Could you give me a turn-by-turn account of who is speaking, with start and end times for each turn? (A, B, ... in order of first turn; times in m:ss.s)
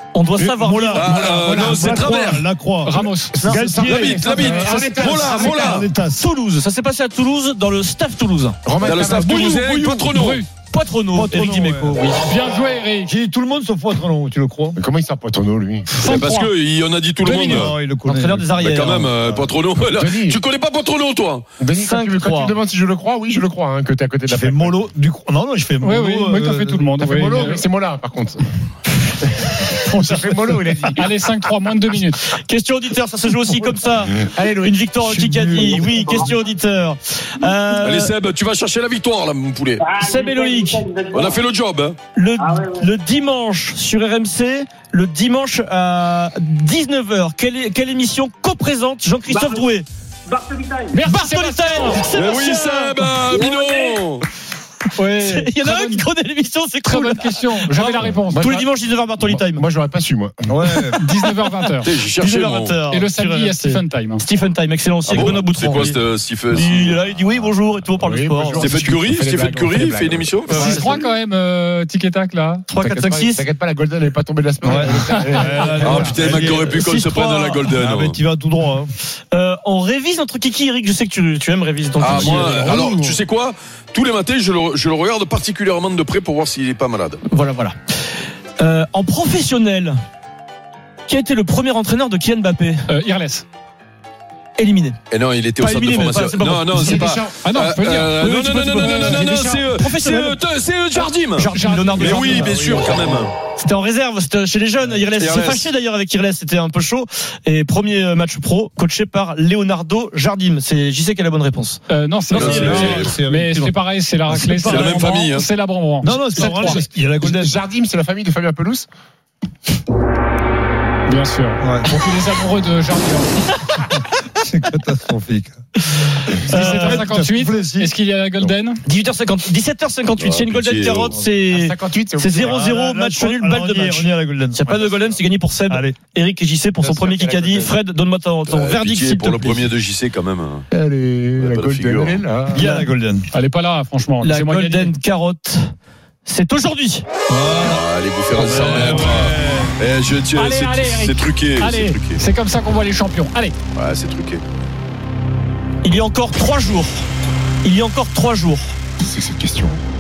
0:00.1-0:01.2 A
0:00.4-0:02.0 B
0:00.6-0:04.5 C
0:01.0-0:02.5 D
0:02.8-0:03.5 E
0:03.4-0:04.2 A
0:03.5-0:05.8 B
0:03.8-0:05.9 D
0:05.1-0:06.2 C
0:06.1-0:08.6 A
0:08.6-0:10.1 B
0:08.8-0:10.4 D
0:09.1-0:10.1 A
0:10.1-0:10.5 E
0:10.7-0:12.3 A
0:11.1-0:12.2 C
0:12.2-0:13.1 E
0:13.1-0:14.8 C
0:14.8-0:15.9 B
0:15.9-0:16.5 E
0:16.0-0:17.8 D
0:17.2-0:17.7 E
0:17.3-0:18.6 C
0:18.0-0:19.1 A
0:18.6-0:21.5 D
0:19.2-0:20.4 B
0:21.6-0:24.8 B
0:21.8-0:22.6 A
0:24.3-0:27.6 C
0:25.8-0:27.6 E
0:27.0-0:28.4 B
0:29.7-0:29.9 A
0:29.8-0:31.1 B
0:31.0-0:32.3 E
0:32.3-0:38.1 A
0:34.1-0:34.8 B
0:35.0-0:36.3 C
0:35.6-0:36.3 F
0:37.8-0:39.8 D
0:39.8-0:41.4 F
0:40.0-0:40.9 A
0:41.1-0:42.0 D
0:42.1-0:49.9 A
0:42.4-0:42.8 F
0:49.3-0:49.6 F
0:50.3-0:51.0 F
0:50.9-0:52.1 E
0:51.0-0:53.1 A
0:52.1-0:54.3 D
0:53.3-0:54.0 F
0:55.0-0:56.1 E
0:55.1-0:59.6 A
0:56.8-0:58.4 E
0:58.0-1:00.7 B
1:00.5-1:01.1 C
1:00.7-1:08.8 A
1:01.0-1:01.9 E
1:01.8-1:02.8 D
1:02.9-1:04.2 E
1:05.1-1:07.0 D
1:08.0-1:10.4 B
1:08.6-1:10.8 D
1:10.5-1:11.0 A
1:10.5-1:12.7 E
1:12.7-1:13.4 A
1:12.8-1:16.1 B
1:14.6-1:16.7 C
1:15.1-1:16.2 E
1:15.8-1:18.2 D
1:16.4-1:17.8 A
1:17.8-1:18.9 C
1:19.3-1:22.8 A
1:22.0-1:27.2 D
1:22.1-1:23.2 B
1:27.2-1:27.8 A
1:28.6-1:30.0 A
1:31.1-1:32.9 A
1:32.9-1:33.4 E
1:34.6-1:35.0 A
1:35.1-1:43.3 D
1:35.6-1:37.1 A
1:36.7-1:37.4 B
1:37.4-1:38.2 E
1:38.2-1:40.4 A
1:38.8-1:39.2 E
1:39.3-1:39.6 B
1:41.4-1:42.9 A
1:41.5-1:42.5 E
1:42.5-1:43.3 C
1:43.6-1:53.2 A
1:45.2-1:45.7 D
1:51.9-1:56.8 E
1:52.3-1:53.2 D
1:52.3-1:55.2 C
1:54.6-1:55.5 D
1:56.0-1:57.6 C
1:56.5-1:58.9 B
2:01.1-2:03.5 E
2:01.6-2:01.9 C
2:04.3-2:05.6 C
2:06.0-2:07.1 A
2:06.4-2:08.0 C
2:06.5-2:08.8 E
2:08.8-2:19.7 A
2:10.2-2:11.2 D
2:11.5-2:12.6 B
2:12.4-2:14.9 C
2:15.7-2:16.0 C
2:16.8-2:17.8 B
2:18.5-2:20.7 D
2:20.7-2:22.7 B
2:21.4-2:22.3 D
2:22.5-2:23.3 C
2:22.6-2:22.9 A
2:23.3-2:24.9 E
2:24.2-2:25.7 A
2:26.2-2:27.1 A
2:27.3-2:29.8 C
2:27.4-2:32.2 D
2:30.3-2:33.6 E
2:33.8-2:34.4 D
2:35.8-2:37.1 A
2:37.6-2:38.8 A
2:39.0-2:39.8 B